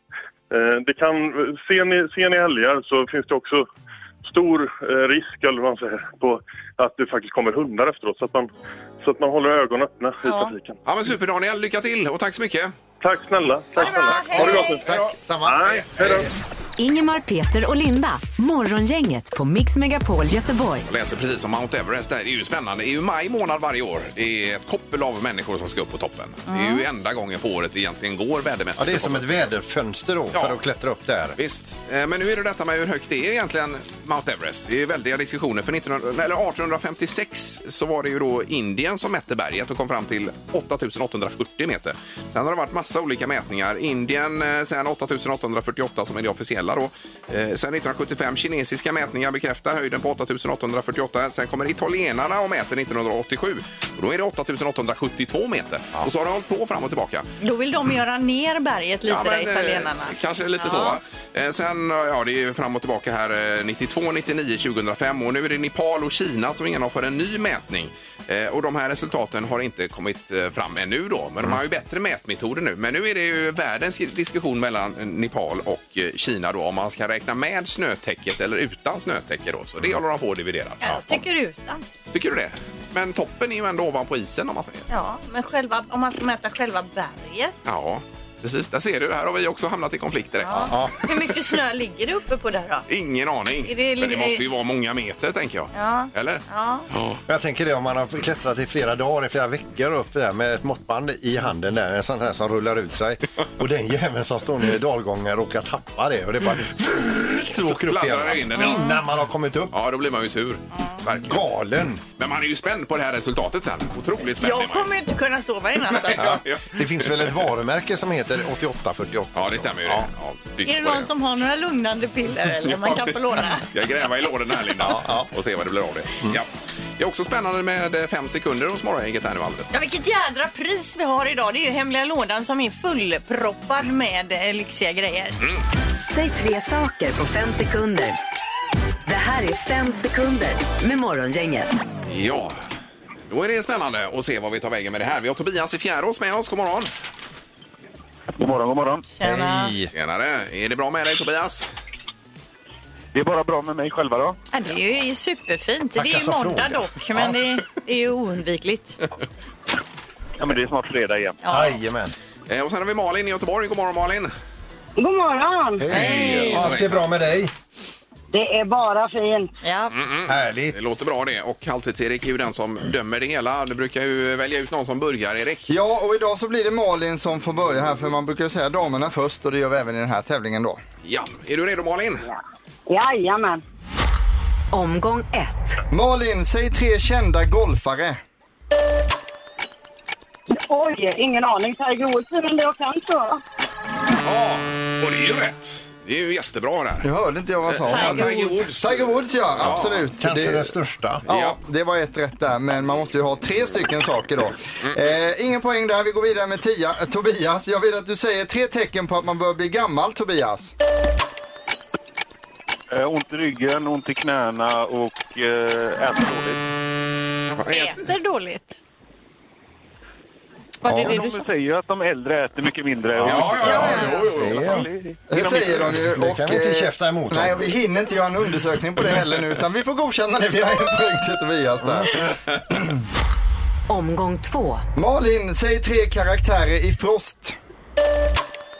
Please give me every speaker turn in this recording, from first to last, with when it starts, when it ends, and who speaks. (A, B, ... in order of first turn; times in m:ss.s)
0:00.5-0:03.7 A
0:04.2-0:08.5 A
0:09.0-0:10.8 A
0:10.2-0:10.5 B
0:10.8-0:12.7 C
0:13.0-0:14.8 A
0:13.8-0:14.8 B
0:14.3-0:16.3 D
0:14.3-0:15.2 C
0:15.4-0:16.3 A
0:16.8-0:20.9 E
0:20.8-0:29.3 C
0:26.5-0:26.8 B
0:28.8-0:31.4 D
0:30.3-0:30.6 C
0:31.4-0:57.3 C
0:57.4-1:01.0 B
0:59.0-1:21.2 C
1:20.8-1:21.8 B
1:22.1-1:24.8 C
1:24.9-1:27.5 B
1:27.6-1:30.7 C
1:30.4-1:32.8 B
1:30.5-1:31.2 D
1:32.9-1:37.2 C
1:33.6-1:34.4 B
1:35.7-1:36.8 B
1:37.3-1:49.7 D
1:47.6-1:48.9 C
1:48.6-1:49.0 B
1:49.7-1:51.4 C
1:51.2-1:52.0 D
1:52.2-1:54.9 C
1:54.4-1:56.4 B
1:56.0-1:57.3 C
1:56.2-2:00.1 D
1:59.3-2:01.1 C
2:00.6-2:03.6 B
2:02.6-2:09.7 C
2:04.8-2:05.2 D
2:09.7-2:15.4 B
2:16.1-2:18.2 E
2:19.0-2:21.7 E
2:22.0-2:22.6 C
2:23.2-2:26.9 C
2:28.4-2:29.1 F
2:29.1-2:29.7 B
2:29.2-2:29.9 D
2:29.9-2:31.7 C
2:33.1-2:34.4 F
2:34.5-2:39.0 B
2:35.9-2:37.4 D
2:40.4-2:41.4 F
2:41.4-2:41.8 B
2:41.5-2:42.1 D
2:42.5-2:44.3 C
2:45.0-2:45.9 G
2:45.8-2:47.5 D
2:45.9-2:46.7 B
2:45.9-2:47.1 C
2:48.3-2:49.5 G
2:49.6-2:49.9 B
2:49.9-2:55.7 C
2:50.3-2:50.8 D
2:55.7-3:00.8 H
3:01.0-3:02.2 C
3:02.2-3:03.6 G
3:04.7-3:05.8 E
3:05.9-3:08.2 H
3:10.5-3:13.4 G
3:14.2-3:17.1 C
3:17.0-3:20.7 H
3:17.7-3:20.1 C
3:17.9-3:18.6 B
3:19.6-3:21.2 D
3:21.2-3:30.7 H
3:21.3-3:21.6 C
3:32.9-3:36.6 F
3:37.6-3:38.0 C
3:37.7-3:38.8 B
3:40.8-3:41.4 B
3:40.8-3:46.0 F
3:43.2-3:44.8 C
3:43.3-3:44.9 D
3:43.6-3:44.2 B
3:45.3-3:52.9 H
3:46.0-3:47.7 D
3:53.9-3:54.8 E
3:55.0-3:57.5 H